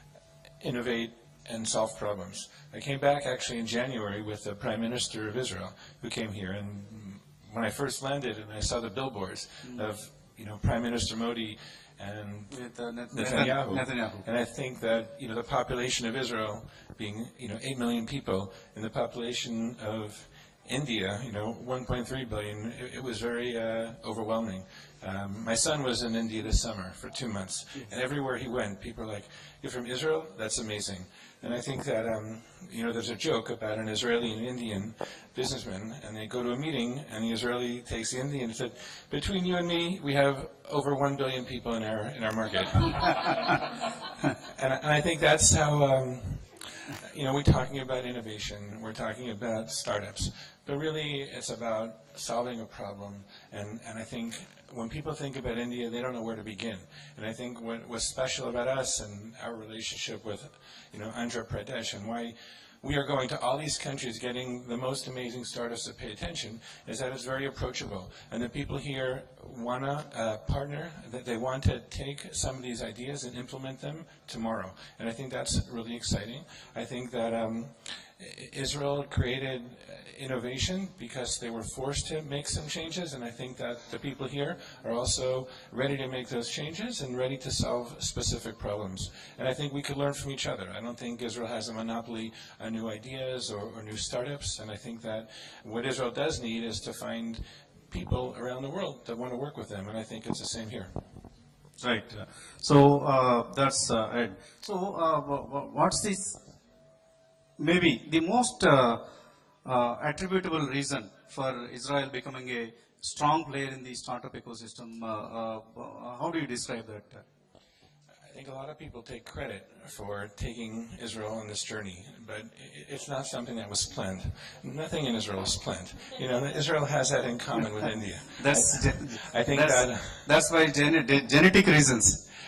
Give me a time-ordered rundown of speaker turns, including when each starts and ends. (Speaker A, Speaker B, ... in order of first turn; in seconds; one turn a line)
Speaker A: 0.6-43.6
Speaker B: 9.6-9.9
Speaker B: 12.5-14.2
Speaker A: 44.5-100.9
Speaker B: 101.8-106.4
Speaker B: 107.6-109.1
Speaker B: 109.6-117.2
Speaker A: 118.3-130.3
Speaker B: 128.3-132.2